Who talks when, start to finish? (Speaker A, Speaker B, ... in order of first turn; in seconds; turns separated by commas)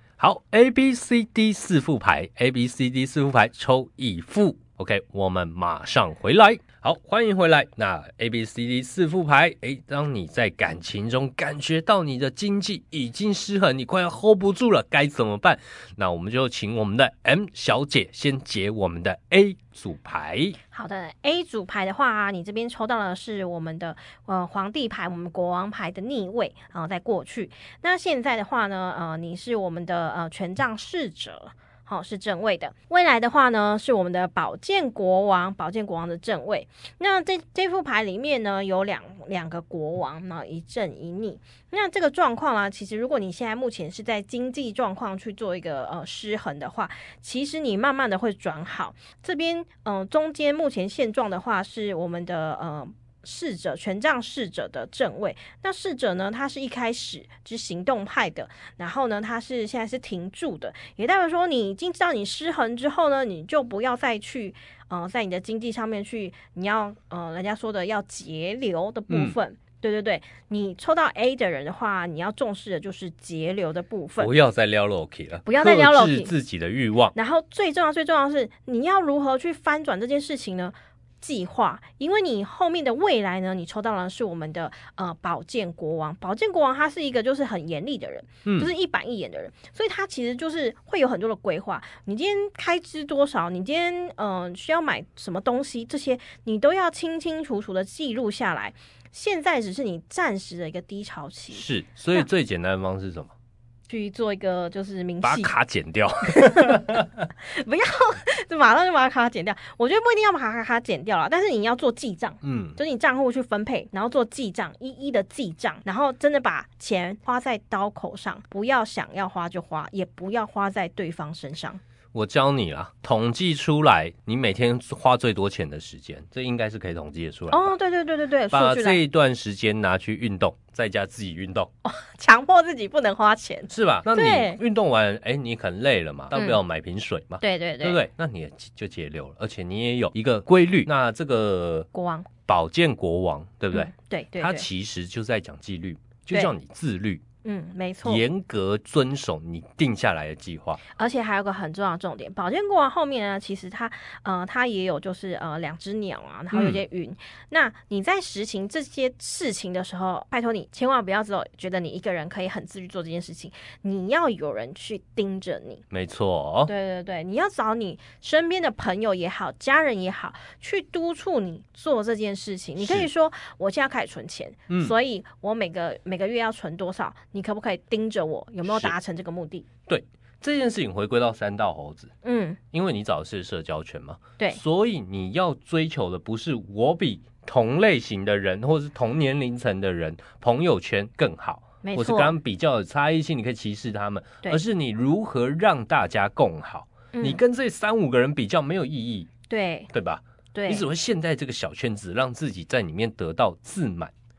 Speaker A: 0.2-20.6, Speaker B: 20.7-74.3, Speaker A: 69.1-69.4, Speaker A: 74.2-77.1, Speaker B: 75.5-76.3, Speaker B: 77.1-102.2, Speaker A: 88.5-88.7, Speaker A: 101.5-103.3, Speaker B: 103.9-105.5, Speaker A: 105.2-107.3, Speaker B: 106.3-121.8, Speaker A: 112.4-112.8, Speaker A: 122.1-127.7, Speaker B: 127.5-129.0, Speaker A: 128.5-131.7, Speaker B: 131.8-134.6, Speaker A: 133.7-141.9, Speaker B: 136.3-136.6, Speaker B: 137.4-138.0, Speaker B: 141.9-142.3, Speaker A: 142.5-147.2, Speaker B: 143.7-144.7, Speaker B: 147.4-148.2, Speaker A: 148.1-150.8, Speaker B: 151.0-165.8, Speaker A: 156.5-156.8, Speaker A: 165.9-166.7, Speaker B: 166.7-179.7, Speaker A: 172.8-173.1, Speaker A: 178.7-178.9, Speaker A: 179.9-182.1, Speaker B: 182.2-182.6, Speaker A: 182.7-199.3, Speaker B: 191.8-192.3, Speaker B: 197.1-197.4, Speaker B: 199.5-199.9, Speaker A: 199.9-204.1, Speaker B: 200.5-200.9